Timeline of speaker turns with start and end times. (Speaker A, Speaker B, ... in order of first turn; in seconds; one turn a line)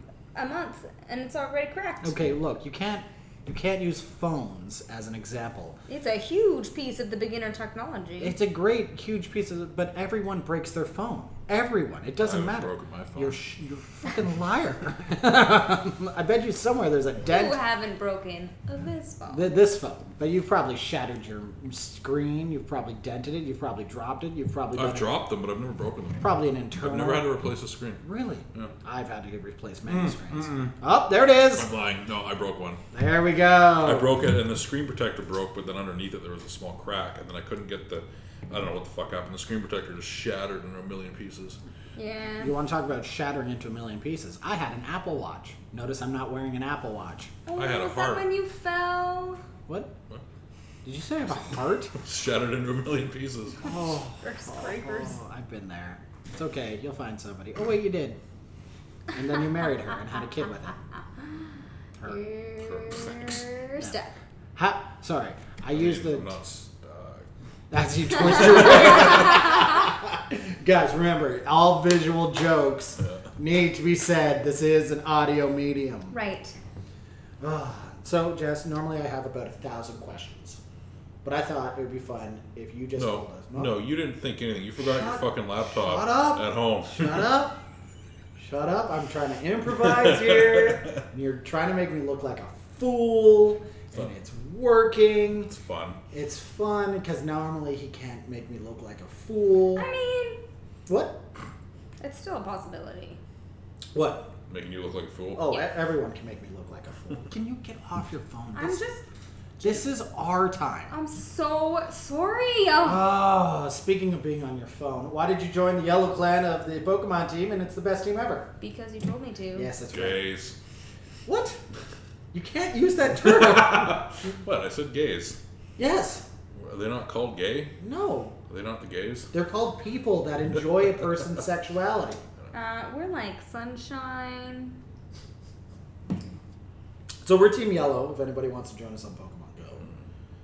Speaker A: 0.3-2.2
Speaker B: 2.0-5.8
Speaker A: 5.9-8.3
Speaker B: 8.2-17.6
Speaker C: 12.2-13.4
Speaker A: 17.2-19.5
Speaker B: 19.3-25.2
Speaker C: 24.7-28.0
Speaker B: 26.2-27.3
Speaker B: 28.0-31.7
Speaker C: 29.9-30.7
Speaker C: 31.5-32.8
Speaker B: 32.9-34.1
Speaker C: 33.8-41.6
Speaker A: 42.0-42.5
Speaker B: 42.4-47.3
Speaker A: 47.5-49.4
Speaker C: 47.5-48.2
Speaker B: 49.7-49.9
Speaker B: 50.8-51.9
Speaker C: 51.9-53.8
Speaker B: 53.6-58.2
Speaker A: 54.2-55.2
Speaker B: 59.1-60.8
Speaker A: 62.0-64.1
Speaker C: 62.6-63.4
Speaker B: 64.5-66.3
Speaker C: 65.7-67.3
Speaker B: 67.7-76.1
Speaker C: 73.0-73.3
Speaker A: 76.1-76.5
Speaker B: 77.4-80.6
Speaker B: 81.2-83.8
Speaker C: 83.0-87.1
Speaker B: 84.8-87.6
Speaker B: 88.4-95.5
Speaker C: 95.5-96.0
Speaker B: 96.1-99.8
Speaker A: 99.7-100.4
Speaker B: 100.9-101.2
Speaker A: 102.0-103.2
Speaker B: 103.9-104.3
Speaker C: 104.5-105.4
Speaker B: 105.3-108.8
Speaker A: 108.5-109.0
Speaker B: 109.6-110.9
Speaker A: 110.9-113.0
Speaker B: 112.8-118.5
Speaker A: 118.6-119.7
Speaker B: 119.5-120.2
Speaker C: 119.9-120.5
Speaker B: 121.2-121.6
Speaker B: 122.3-124.1
Speaker C: 123.3-125.4
Speaker B: 125.8-126.3
Speaker C: 126.5-127.7
Speaker B: 127.8-128.4
Speaker C: 128.5-129.3
Speaker B: 129.3-132.2
Speaker A: 132.5-134.8
Speaker B: 137.2-139.8